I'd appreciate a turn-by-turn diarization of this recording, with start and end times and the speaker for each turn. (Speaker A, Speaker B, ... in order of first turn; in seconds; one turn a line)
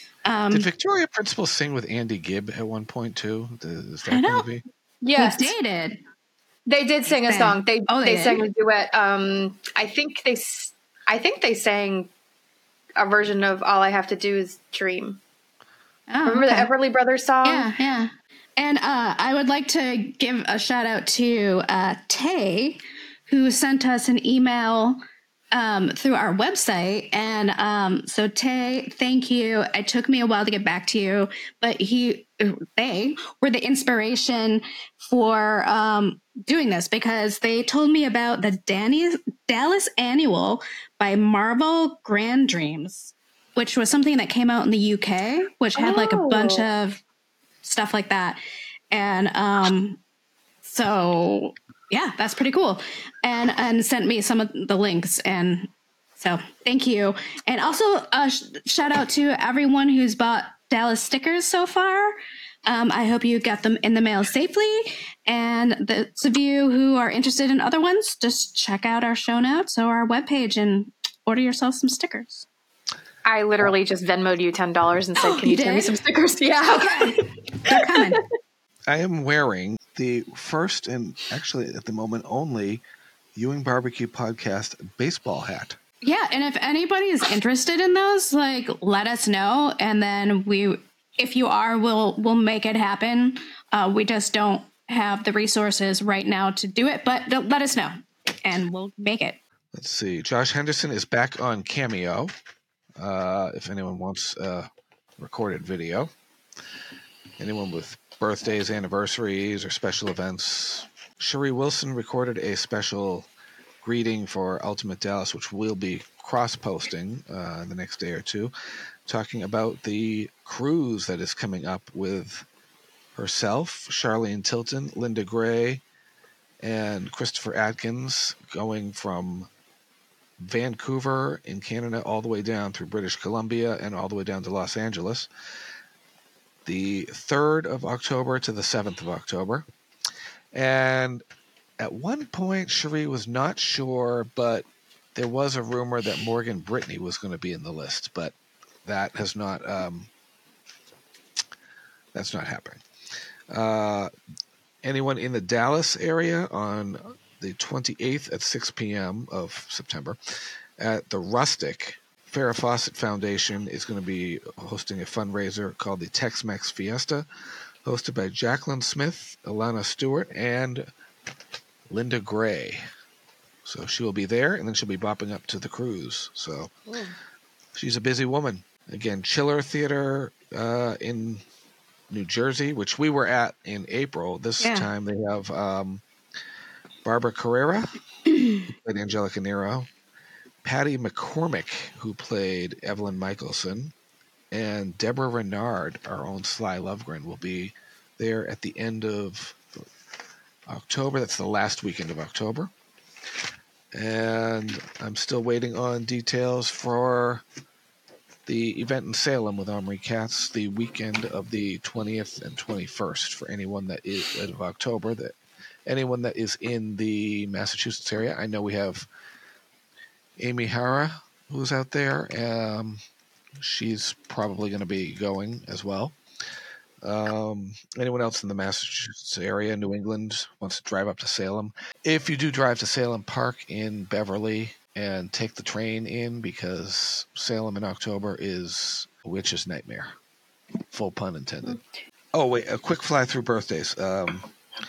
Speaker A: 0.2-0.7
Speaker B: 0.5-4.6
Speaker A: 4.1-4.5
Speaker C: 5.0-5.5
Speaker A: 5.2-6.0
Speaker C: 6.7-12.1
Speaker A: 7.2-8.4
Speaker C: 13.0-15.2
Speaker A: 16.1-16.7
Speaker C: 16.3-17.7
Speaker A: 17.4-25.0
Speaker A: 25.5-47.0
Speaker C: 45.8-46.6
Speaker A: 47.6-50.0
Speaker A: 50.6-72.5
Speaker C: 73.2-78.0
Speaker A: 75.2-75.9
Speaker A: 76.7-78.2
Speaker B: 78.9-82.8
Speaker B: 83.3-85.8
Speaker A: 86.0-99.4
Speaker B: 99.7-102.3
Speaker B: 103.0-104.7
Speaker B: 105.2-106.1
Speaker B: 107.4-113.3
Speaker B: 113.8-118.5
Speaker B: 119.1-122.5
Speaker B: 123.2-125.8
Speaker B: 126.6-129.5
Speaker B: 130.4-135.3
Speaker B: 136.7-139.7
Speaker B: 140.5-141.2
Speaker B: 141.8-148.3
Speaker B: 148.8-150.1
Speaker B: 152.1-152.8
Speaker B: 153.5-154.1
Speaker B: 154.8-160.2
Speaker B: 160.8-167.3
Speaker B: 167.8-170.9
Speaker B: 171.9-172.8
Speaker B: 173.7-176.7
Speaker B: 177.8-181.4
Speaker B: 182.1-186.0
Speaker A: 184.6-184.9
Speaker B: 187.0-187.9
Speaker A: 188.3-188.6
Speaker B: 188.7-189.9
Speaker B: 190.6-193.9
Speaker B: 194.5-199.6
Speaker B: 200.7-202.7
Speaker B: 203.9-207.4
Speaker B: 208.5-215.3
Speaker B: 215.9-219.1
Speaker B: 220.4-223.0
Speaker B: 223.6-226.2
Speaker B: 227.0-240.1
Speaker B: 240.9-241.8
Speaker B: 242.3-244.5